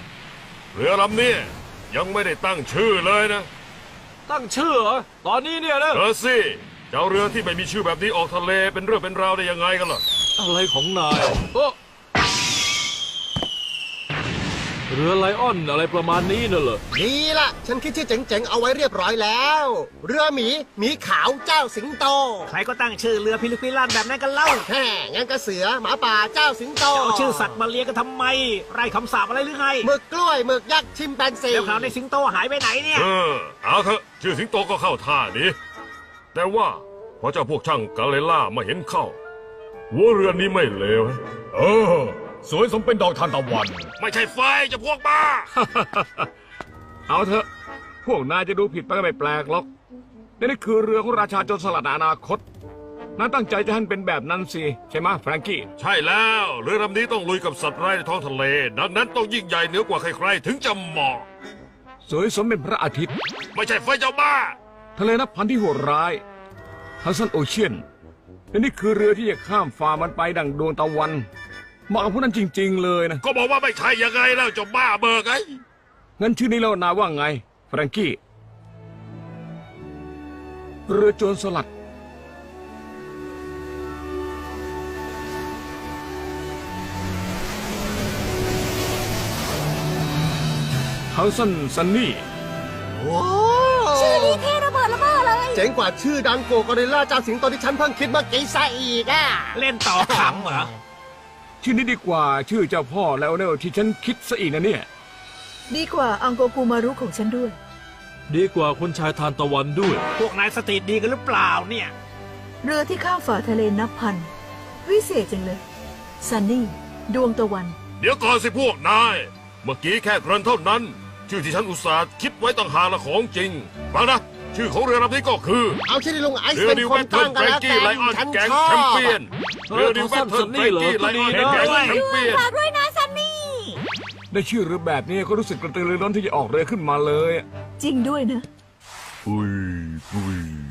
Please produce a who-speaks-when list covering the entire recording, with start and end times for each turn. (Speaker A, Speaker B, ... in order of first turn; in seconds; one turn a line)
Speaker A: 0.7-3.5
Speaker B: 4.3-6.0
Speaker A: 5.9-10.0
Speaker B: 10.4-11.8
Speaker B: 14.9-16.8
Speaker C: 16.9-22.5
Speaker D: 22.5-24.6
Speaker C: 24.6-27.5
Speaker D: 26.9-29.9
Speaker C: 29.8-31.9
Speaker D: 31.5-33.1
Speaker A: 32.9-35.5
Speaker A: 36.3-39.2
Speaker A: 39.9-45.5
Speaker E: 45.6-46.2
Speaker E: 47.1-47.5
Speaker E: 48.0-49.7
Speaker E: 50.4-52.4
Speaker E: 53.1-55.7
Speaker A: 55.8-61.2
Speaker E: 62.1-63.1
Speaker A: 63.5-64.5
Speaker E: 65.0-66.2
Speaker E: 67.0-67.8
Speaker E: 68.5-71.2
Speaker E: 71.9-73.2
Speaker A: 73.2-75.6
Speaker E: 76.2-78.2
Speaker E: 80.9-81.7
Speaker E: 91.1-92.2
Speaker C: 93.0-94.5
Speaker F: 93.9-95.6
Speaker C: 95.5-100.7
Speaker D: 99.5-100.7
Speaker E: 101.6-104.8
Speaker F: 105.7-107.5
Speaker B: 108.3-110.0
Speaker D: 110.2-111.9
Speaker F: 112.6-114.3
Speaker F: 114.8-115.6
Speaker F: 116.2-117.8
Speaker A: 118.0-125.8
Speaker C: 125.8-129.1
Speaker A: 126.5-132.5
Speaker B: 129.7-131.7
Speaker F: 131.5-133.8
Speaker D: 131.5-132.0
Speaker E: 134.3-137.4
Speaker F: 137.8-138.4
Speaker B: 139.3-139.9